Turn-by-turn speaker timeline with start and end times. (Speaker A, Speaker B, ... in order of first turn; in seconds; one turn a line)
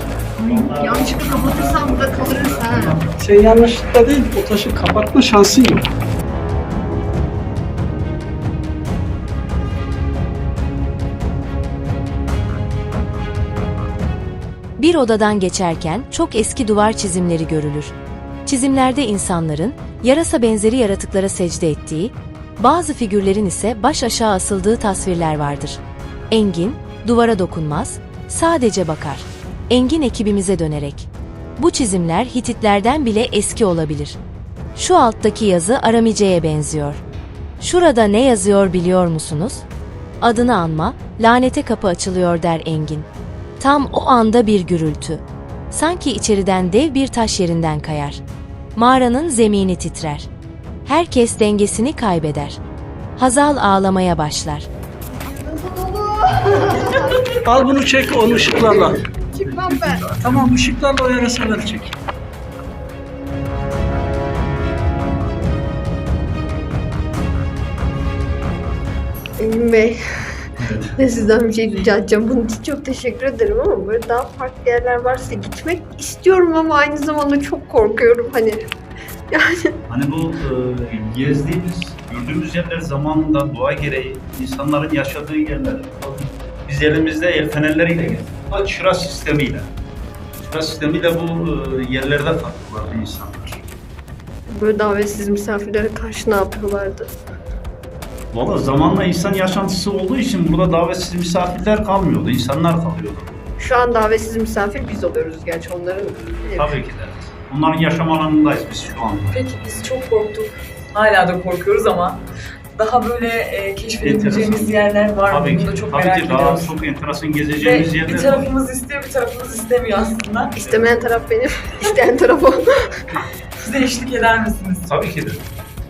Speaker A: 0.4-3.1
Speaker B: 0.4-3.0
Speaker C: 3.2-5.9
Speaker D: 14.8-17.9
Speaker D: 18.5-34.2
Speaker D: 34.8-37.0
Speaker D: 37.6-39.7
Speaker D: 40.2-43.1
Speaker D: 43.6-48.2
Speaker D: 48.8-50.3
Speaker D: 50.9-52.6
Speaker D: 53.2-54.7
Speaker B: 55.3-57.2
Speaker C: 57.4-59.0
Speaker A: 58.3-58.6
Speaker B: 59.4-60.0
Speaker A: 59.4-60.6
Speaker C: 60.2-61.9
Speaker B: 69.4-70.0
Speaker A: 70.6-70.9
Speaker B: 71.0-78.6
Speaker B: 79.3-79.8
Speaker A: 79.9-89.7
Speaker A: 90.4-93.6
Speaker B: 94.5-97.1
Speaker A: 98.3-103.3
Speaker B: 103.6-106.7
Speaker A: 106.1-109.4
Speaker E: 109.3-112.2
Speaker E: 112.8-116.8
Speaker A: 114.0-114.7
Speaker A: 115.3-118.5
Speaker E: 117.6-120.5
Speaker A: 120.6-120.9
Speaker B: 120.6-123.0
Speaker E: 123.6-124.9
Speaker A: 124.8-125.4